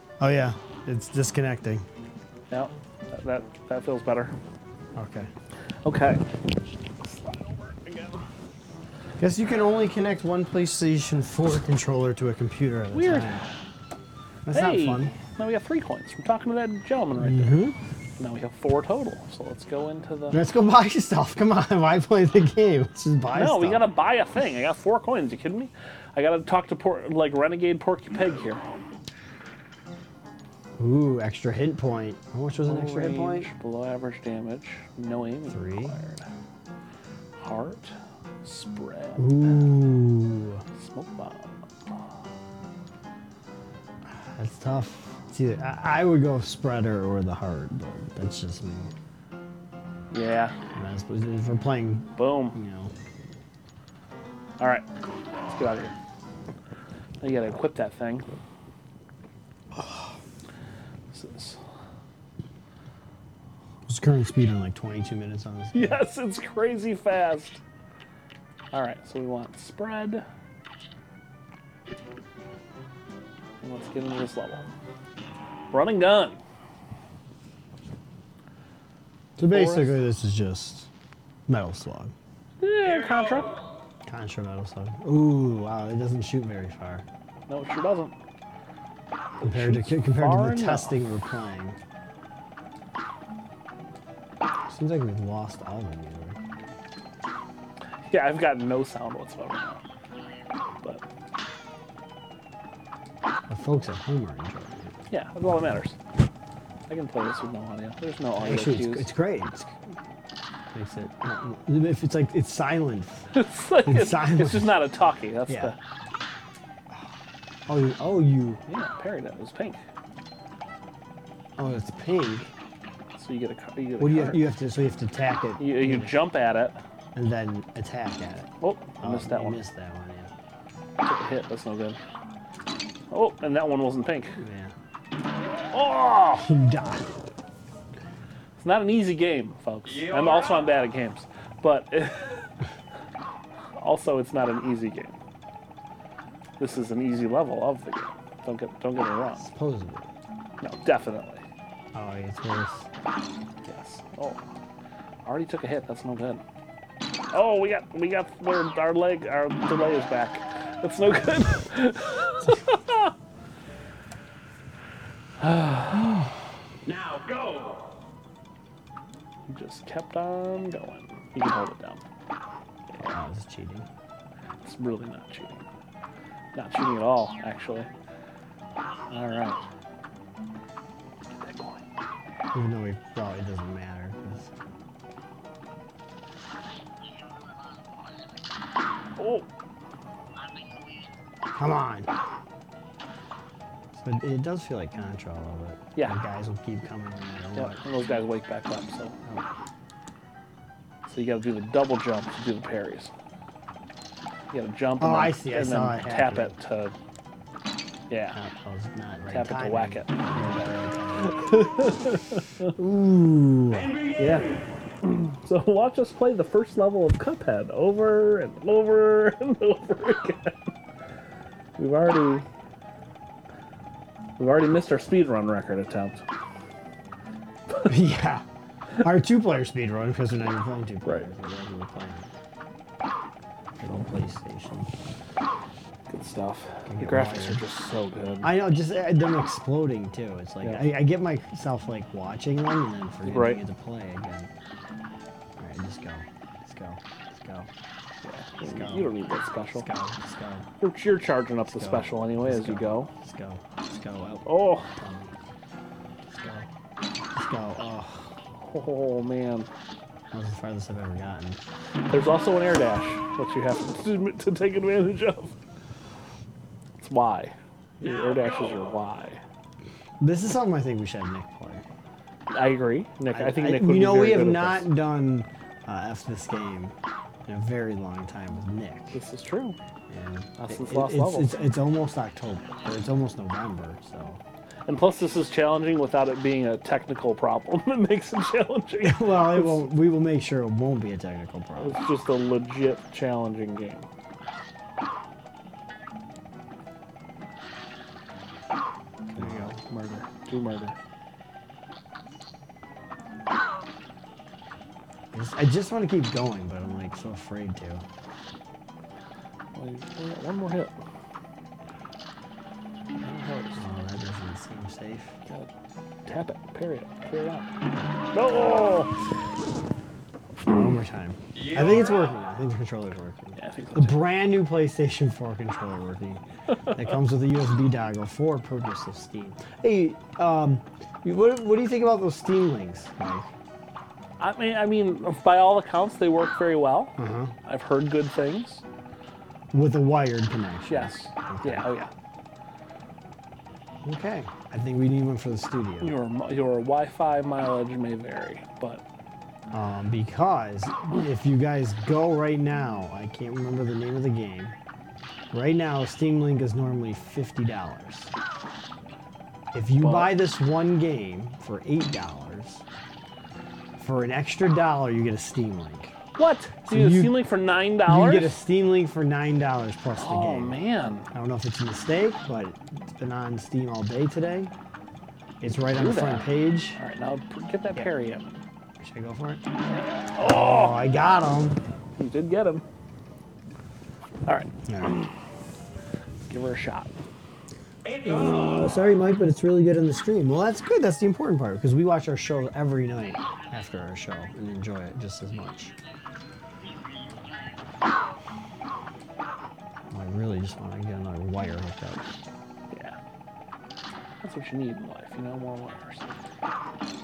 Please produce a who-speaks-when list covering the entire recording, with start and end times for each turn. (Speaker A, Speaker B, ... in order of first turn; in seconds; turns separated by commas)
Speaker A: 0.2-1.9, Speaker B: 2.5-4.3, Speaker A: 5.0-5.3, Speaker B: 5.8-6.2, Speaker B: 7.0-8.2, Speaker A: 9.2-13.4, Speaker B: 12.9-13.4, Speaker A: 14.4-15.1, Speaker B: 14.5-17.6, Speaker A: 17.2-17.8, Speaker B: 18.2-20.4, Speaker A: 20.3-23.8, Speaker B: 23.3-28.6, Speaker A: 30.8-33.5, Speaker B: 32.6-36.2, Speaker A: 35.5-35.9, Speaker B: 37.4-39.7, Speaker A: 39.2-40.6, Speaker B: 40.8-41.6, Speaker A: 44.1-48.9, Speaker B: 50.1-50.5, Speaker A: 50.7-52.9, Speaker B: 52.1-52.6, Speaker B: 54.6-54.9, Speaker B: 55.5-55.9, Speaker B: 57.2-58.3, Speaker B: 61.1-61.6, Speaker A: 63.9-66.0, Speaker B: 65.7-67.6, Speaker B: 68.7-70.2, Speaker B: 73.6-74.6, Speaker B: 75.7-76.4, Speaker A: 79.4-80.9, Speaker B: 79.5-80.0, Speaker A: 81.5-82.1, Speaker B: 82.6-83.6, Speaker A: 84.0-87.0, Speaker B: 87.5-88.1, Speaker B: 89.4-91.0, Speaker A: 89.4-91.8, Speaker A: 94.7-96.4, Speaker B: 98.1-99.8, Speaker A: 103.5-104.9, Speaker B: 105.1-106.0, Speaker B: 106.9-109.1, Speaker A: 108.4-109.7, Speaker A: 110.7-113.2, Speaker B: 113.3-115.8, Speaker A: 113.8-114.7, Speaker A: 115.5-115.7, Speaker A: 117.7-118.6, Speaker B: 118.7-119.8, Speaker A: 121.6-122.5, Speaker B: 123.2-124.4, Speaker A: 124.0-126.1, Speaker B: 125.6-126.8, Speaker A: 127.1-130.3, Speaker B: 128.6-129.6, Speaker B: 131.0-132.0, Speaker B: 133.1-134.4, Speaker A: 134.4-134.7, Speaker B: 135.7-136.5, Speaker A: 136.4-137.1, Speaker B: 138.6-142.4, Speaker B: 143.8-145.2, Speaker B: 146.6-149.4, Speaker A: 149.4-150.1, Speaker B: 150.6-151.4, Speaker A: 151.9-152.9, Speaker B: 153.7-154.4, Speaker B: 155.2-156.4, Speaker B: 157.3-163.1, Speaker B: 165.4-166.2, Speaker B: 169.5-172.0, Speaker A: 173.0-173.9, Speaker B: 174.6-175.6, Speaker B: 176.5-177.9, Speaker B: 179.1-179.6, Speaker B: 181.3-181.8, Speaker A: 182.5-184.5, Speaker B: 189.2-189.4, Speaker A: 191.5-192.1, Speaker A: 193.9-197.8, Speaker B: 197.6-199.2, Speaker B: 201.1-203.1, Speaker B: 204.5-206.9, Speaker A: 205.0-206.5, Speaker B: 208.1-208.4, Speaker A: 208.3-211.5, Speaker B: 209.3-210.7, Speaker B: 211.2-212.7, Speaker A: 212.8-214.5, Speaker B: 215.0-220.7, Speaker B: 221.8-222.4, Speaker B: 224.4-226.2, Speaker A: 227.8-228.4, Speaker A: 229.0-232.3, Speaker A: 233.8-234.9, Speaker B: 236.1-238.5, Speaker A: 236.9-237.6, Speaker A: 238.4-244.5, Speaker B: 243.2-243.6, Speaker A: 245.6-247.7, Speaker B: 248.2-249.9, Speaker A: 248.6-249.1, Speaker A: 249.7-250.7, Speaker B: 250.8-253.1, Speaker A: 251.7-255.4, Speaker B: 254.4-254.9, Speaker A: 256.3-256.7, Speaker A: 257.3-258.3, Speaker B: 258.6-259.7, Speaker A: 260.3-261.6, Speaker B: 262.1-265.5, Speaker B: 267.0-269.4, Speaker A: 270.2-271.8, Speaker B: 272.5-274.9, Speaker A: 273.3-276.9, Speaker A: 277.4-279.2, Speaker B: 279.1-279.8, Speaker A: 280.1-284.4, Speaker B: 280.6-281.6, Speaker B: 284.9-289.8, Speaker A: 289.0-292.0, Speaker B: 291.8-294.1, Speaker A: 299.3-299.8, Speaker B: 299.3-301.0, Speaker A: 305.3-308.1, Speaker B: 309.7-311.0, Speaker B: 313.2-313.8, Speaker A: 313.8-315.4, Speaker B: 316.2-317.7, Speaker B: 318.3-319.1, Speaker A: 320.6-333.5, Speaker B: 323.6-324.2, Speaker B: 334.4-338.8, Speaker A: 337.2-337.5, Speaker A: 339.7-341.9, Speaker B: 340.9-342.1, Speaker A: 344.0-346.1, Speaker B: 346.0-349.0, Speaker A: 349.7-354.8, Speaker A: 355.5-358.3, Speaker A: 359.7-362.8, Speaker B: 360.0-360.3, Speaker A: 364.0-366.1, Speaker B: 366.4-368.6, Speaker A: 366.9-367.4, Speaker A: 368.1-370.8, Speaker B: 370.2-371.3, Speaker A: 371.3-374.7, Speaker A: 375.6-377.0, Speaker B: 375.9-378.6, Speaker A: 379.0-379.6, Speaker B: 379.9-381.0, Speaker A: 380.4-381.8, Speaker B: 382.2-382.8, Speaker B: 384.4-385.3, Speaker A: 384.9-385.2, Speaker B: 386.5-387.1, Speaker A: 388.2-395.9, Speaker A: 400.1-402.3, Speaker B: 402.9-403.1, Speaker B: 404.4-406.3